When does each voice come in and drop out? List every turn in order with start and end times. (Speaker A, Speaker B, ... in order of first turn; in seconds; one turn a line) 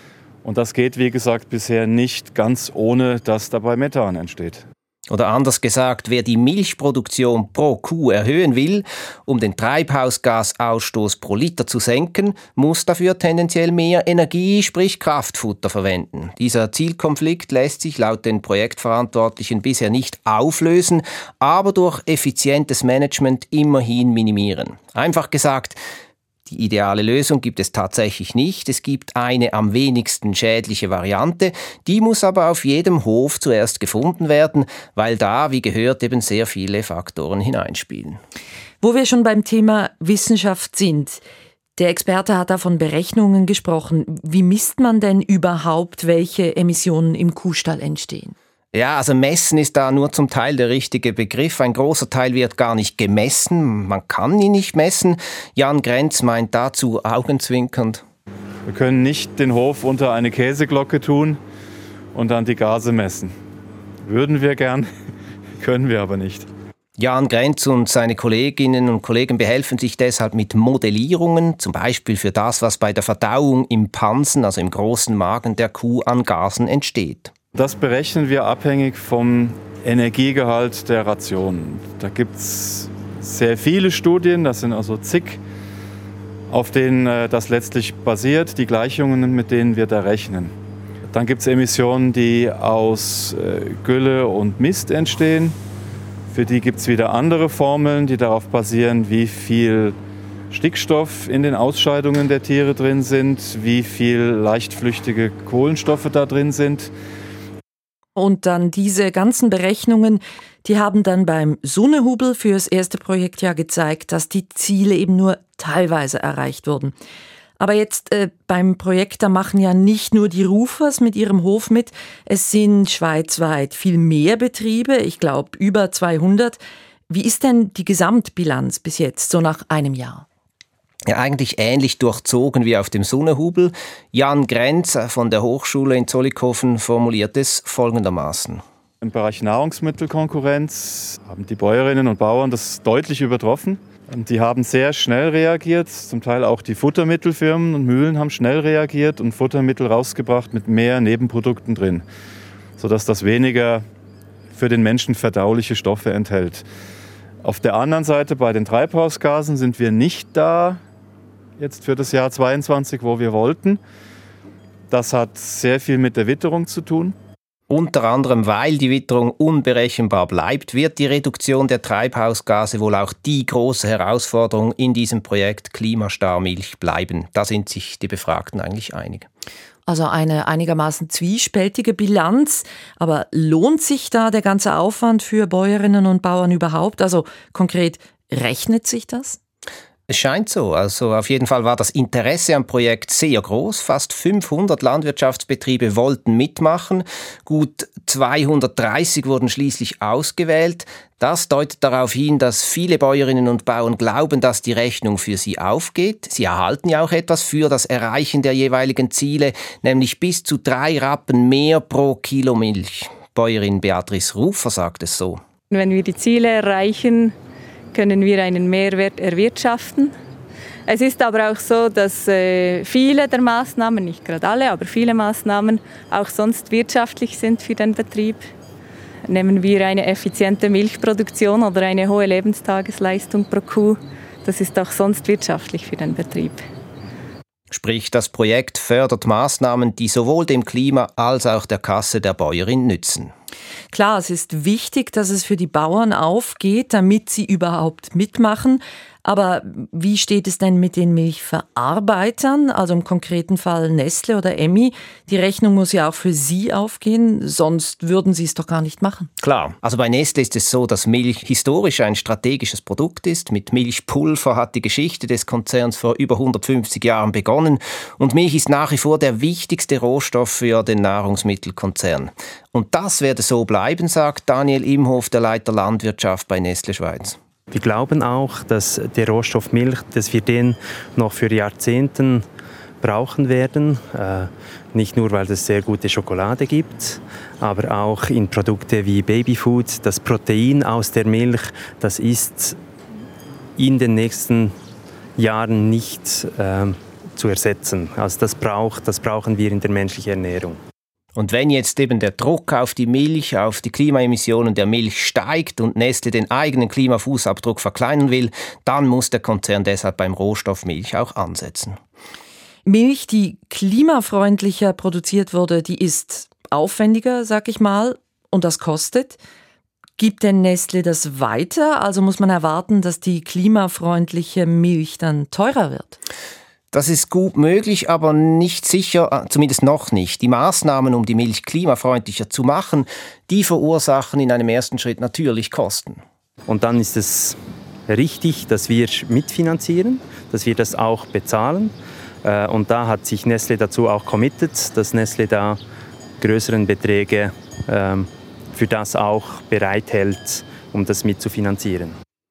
Speaker A: 0.4-4.6
Speaker B: 5.1-25.8
Speaker B: 26.5-38.2
Speaker C: 38.8-41.2
Speaker C: 41.8-48.3
Speaker B: 48.7-58.0
Speaker A: 58.6-61.4
Speaker A: 62.1-63.3
Speaker A: 64.0-64.8
Speaker A: 65.6-66.5
Speaker B: 67.0-77.3
Speaker A: 77.5-85.4
Speaker A: 86.5-90.5
Speaker A: 91.1-95.5
Speaker A: 96.3-99.9
Speaker A: 100.5-106.9
Speaker C: 108.2-116.9
Speaker C: 117.6-126.6
Speaker C: 127.1-130.2
Speaker B: 131.1-138.6
Speaker A: 139.0-152.0
Speaker A: 152.8-153.8
Speaker A: 154.5-156.6
Speaker A: 157.4-160.8
Speaker A: 161.6-163.8
Speaker A: 164.9-167.1
Speaker B: 167.7-179.3
Speaker C: 179.9-189.4
Speaker B: 190.1-215.4
Speaker D: 215.7-217.3
Speaker D: 217.9-220.1
Speaker D: 220.9-228.4
Speaker D: 229.3-236.6
Speaker B: 237.7-243.3
Speaker C: 243.9-259.3
Speaker B: 259.4-277.4
Speaker E: 277.7-282.4
Speaker E: 283.0-292.8
Speaker E: 293.8-294.7
Speaker E: 295.4-300.8
Speaker B: 301.4-312.0
Speaker C: 312.8-319.4
Speaker C: 320.2-326.2
Speaker B: 326.9-336.2
Speaker E: 336.7-345.8
Speaker E: 346.4-352.2